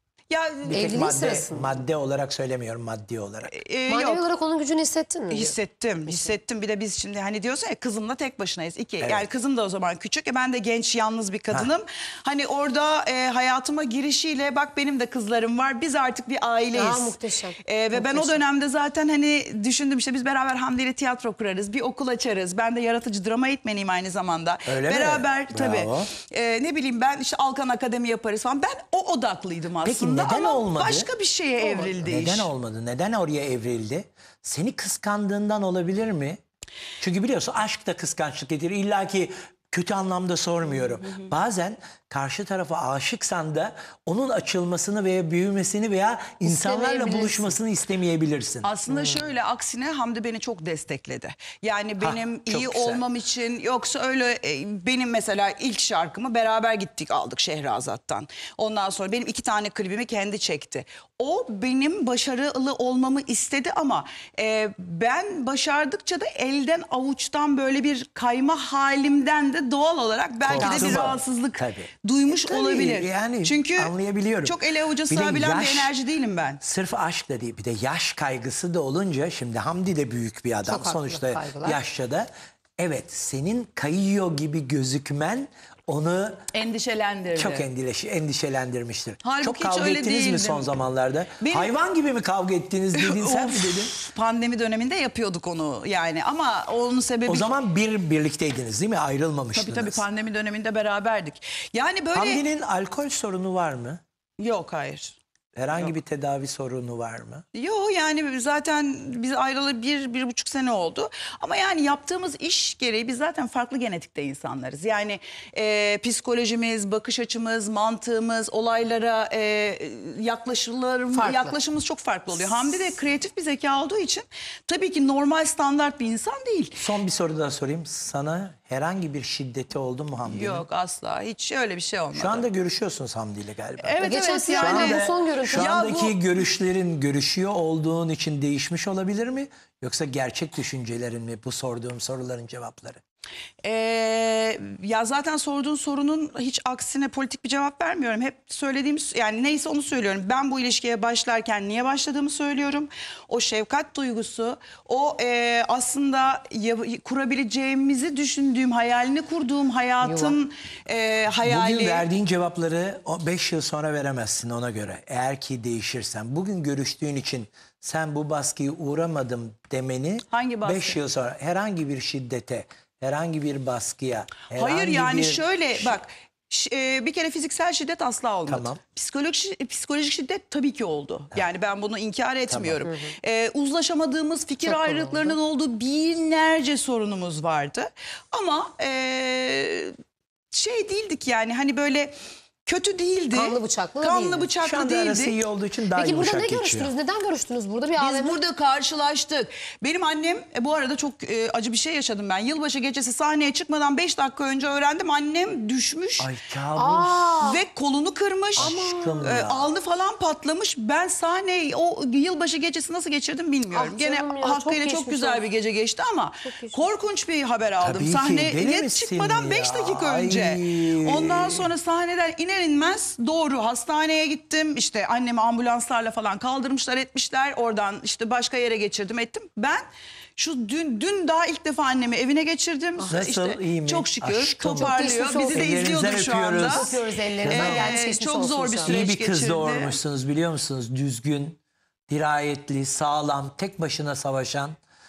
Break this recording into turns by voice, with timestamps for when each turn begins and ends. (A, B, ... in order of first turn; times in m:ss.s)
0:00.3-0:01.2 A
0:00.6-0:03.5 B
0:00.7-0:01.8 C
0:03.5-0:04.2 A
0:03.9-0:06.4 C
0:05.3-0:32.5 A
0:09.0-0:09.3 B
0:16.7-0:18.4 C
0:24.7-0:26.1 B
0:29.8-0:31.1 B
0:31.6-0:31.9 C
0:32.0-0:36.4 B
0:37.0-0:48.7 B
0:40.7-0:41.2 A
0:46.4-0:47.5 C
0:48.6-1:13.9 A
0:48.9-0:49.2 C
0:52.0-0:53.0 B
1:10.5-1:11.9 B
1:10.5-1:11.1 C
1:12.4-1:14.6 B
1:14.4-1:16.6 A
1:15.1-1:15.9 B
1:16.6-1:26.4 B
1:20.6-1:21.8 C
1:26.5-1:27.6 A
1:27.4-1:33.9 B
1:29.2-1:30.7 A
1:31.4-1:31.7 A
1:32.9-1:37.5 A
1:37.2-1:40.0 B
1:39.5-1:42.4 A
1:42.1-1:44.0 B
1:44.4-1:45.2 A
1:45.6-1:47.4 B
1:47.5-2:06.8 A
2:01.1-2:01.6 C
2:06.8-2:10.6 B
2:10.3-2:12.5 A
2:12.1-2:23.0 B
2:13.8-2:16.1 A
2:14.0-2:15.8 C
2:23.6-2:42.1 A
2:40.0-2:40.4 C
2:41.4-2:56.0 B
2:50.3-2:51.0 A
2:54.6-3:09.9 A
2:58.5-2:58.8 B
3:02.5-3:02.8 B
3:02.8-3:03.1 C
3:04.6-3:05.4 C
3:10.5-3:12.1 A
3:12.6-3:15.4 A
3:13.3-3:14.5 C
3:14.6-3:16.9 B
3:15.9-3:18.4 C
3:18.0-3:26.3 A
3:26.2-3:27.3 B
3:26.8-3:27.6 C
3:27.4-3:49.8 A
3:28.6-3:29.2 C
3:28.6-3:29.7 B
3:33.7-3:35.4 C
3:36.4-3:36.8 C
3:37.8-3:41.7 B
3:50.4-3:56.9 A
3:53.0-3:53.3 C
3:53.1-3:57.9 B
3:54.7-3:55.9 C
3:56.6-3:59.0 C
3:57.5-4:00.0 A
3:58.8-4:01.6 B
4:02.1-4:04.8 B